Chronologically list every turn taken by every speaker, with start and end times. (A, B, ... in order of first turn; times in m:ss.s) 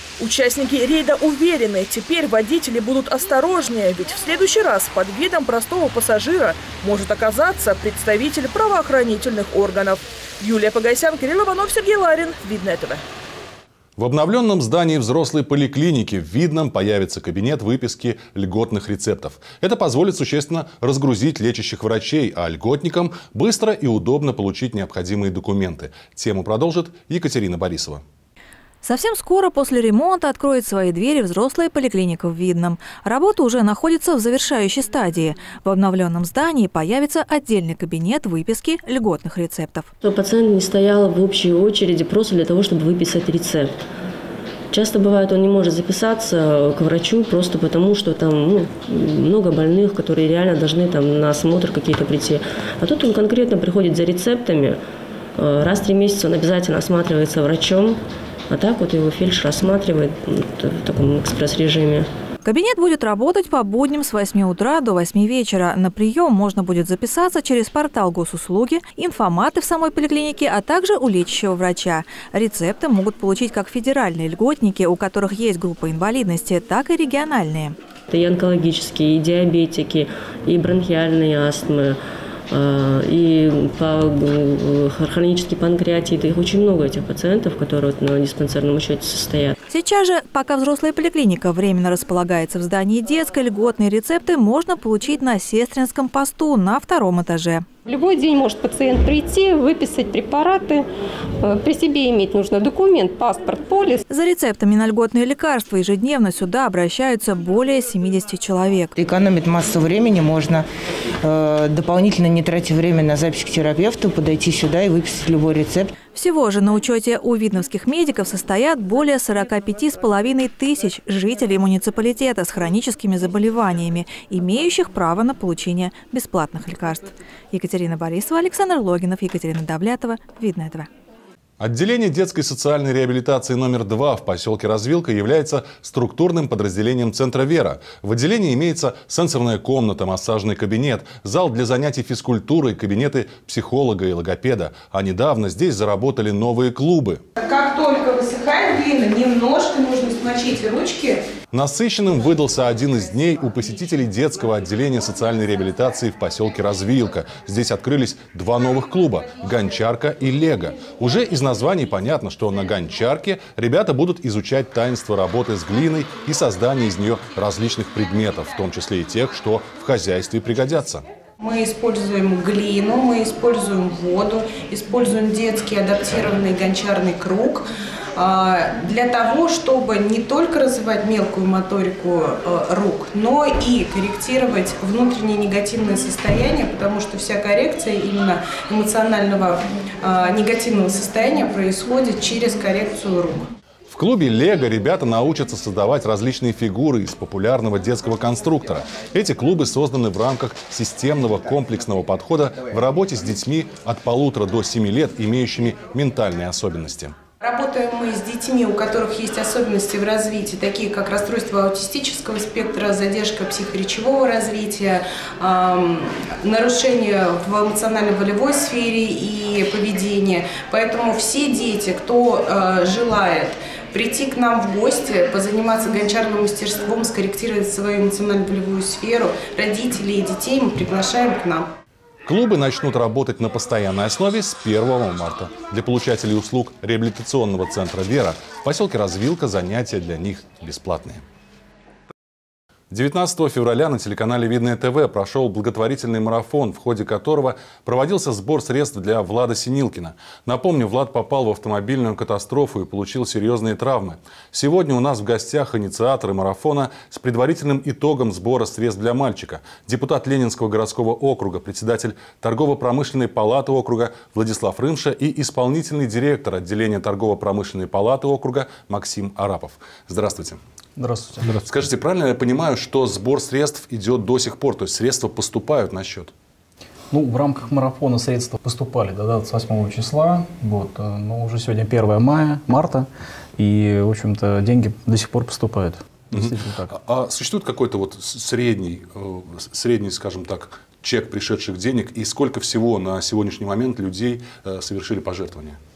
0:00.2-0:13.0 A
0:14.0-0:28.0 B
0:28.8-0:39.9 C
0:40.0-0:43.7 D
0:44.7-0:54.8 D
0:55.4-0:58.0 D
0:58.5-1:02.1 D
1:02.4-1:17.8 C
1:18.1-1:22.0 D
1:22.5-1:29.4 D
1:29.7-1:37.7 C
1:37.9-1:40.9 E
1:41.4-1:44.0 E
1:44.1-1:48.9 C
1:49.0-1:50.6 F
1:51.2-1:55.9 F
1:56.1-2:10.9 C
2:11.6-2:27.2 B
2:27.4-2:31.2 G
2:31.5-2:51.0 B
2:51.4-3:13.5 G
3:13.9-3:27.2 B
3:27.4-3:51.7 G
3:52.3-4:01.2 B
4:02.9-4:30.6 B
4:31.0-4:31.6 H
4:31.6-4:36.3 B
4:37.1-4:43.1 H
4:43.6-4:46.9 H
4:46.3-4:55.8 B